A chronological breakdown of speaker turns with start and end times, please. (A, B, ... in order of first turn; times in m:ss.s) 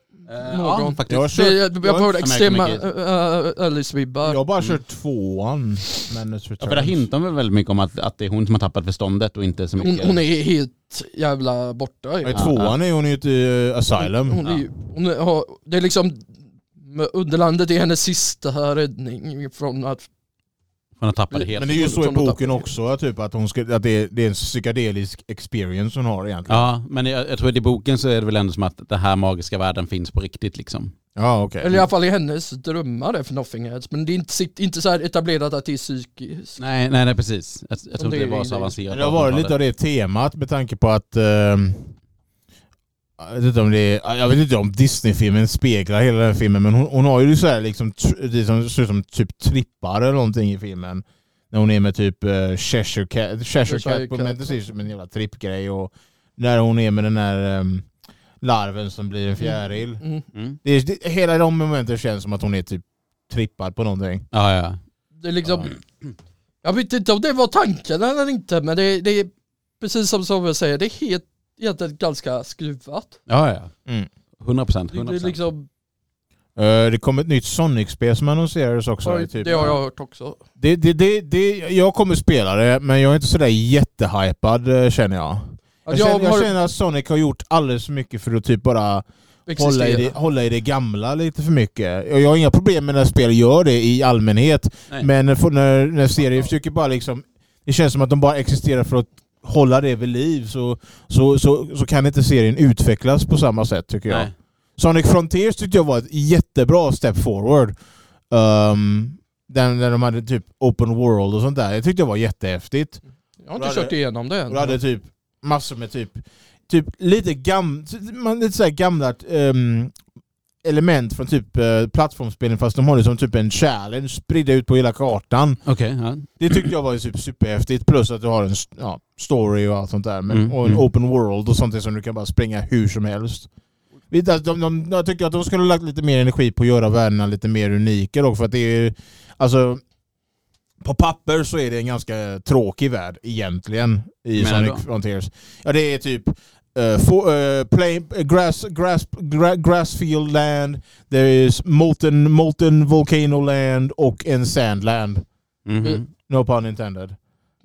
0:00.3-0:02.8 A
0:00.4-0:04.4 B
0:01.1-0:02.1 C
0:04.2-0:07.0 C
0:06.6-0:10.2 A
0:09.8-0:12.4 B
0:12.2-0:14.4 C
0:12.3-0:12.7 A
0:14.0-0:16.3 B
0:16.8-0:20.1 B
0:21.0-0:21.8 A
0:21.3-0:22.6 B
0:21.5-0:26.7 C
0:26.5-0:30.9 A
0:31.2-0:31.9 C
0:31.6-0:36.6 B
0:36.6-0:39.5 A
0:38.0-0:38.8 B
0:38.9-0:42.0 C
0:43.2-0:57.9 C
0:53.7-0:54.5 B
0:58.4-1:00.0 C
1:00.0-1:00.2 B
1:00.6-1:04.3 C
1:04.3-1:04.8 A
1:05.2-1:05.8 B
1:06.6-1:13.2 B
1:13.3-1:13.7 A
1:14.4-1:15.5 A
1:14.9-1:15.7 B
1:16.6-1:19.8 C
1:19.0-1:20.4 B
1:20.6-1:47.8 C
1:25.9-1:26.5 B
1:29.5-1:30.1 B
1:48.3-1:53.0 C
1:53.4-1:54.8 B
1:53.6-2:00.0 C
2:00.6-2:05.6 C
2:05.7-2:06.6 A
2:06.4-2:13.5 C
2:10.3-2:10.8 A
2:14.1-2:19.8 C
2:20.8-2:35.3 C
2:24.4-2:24.8 A
2:35.7-2:36.1 A
2:36.2-2:37.2 C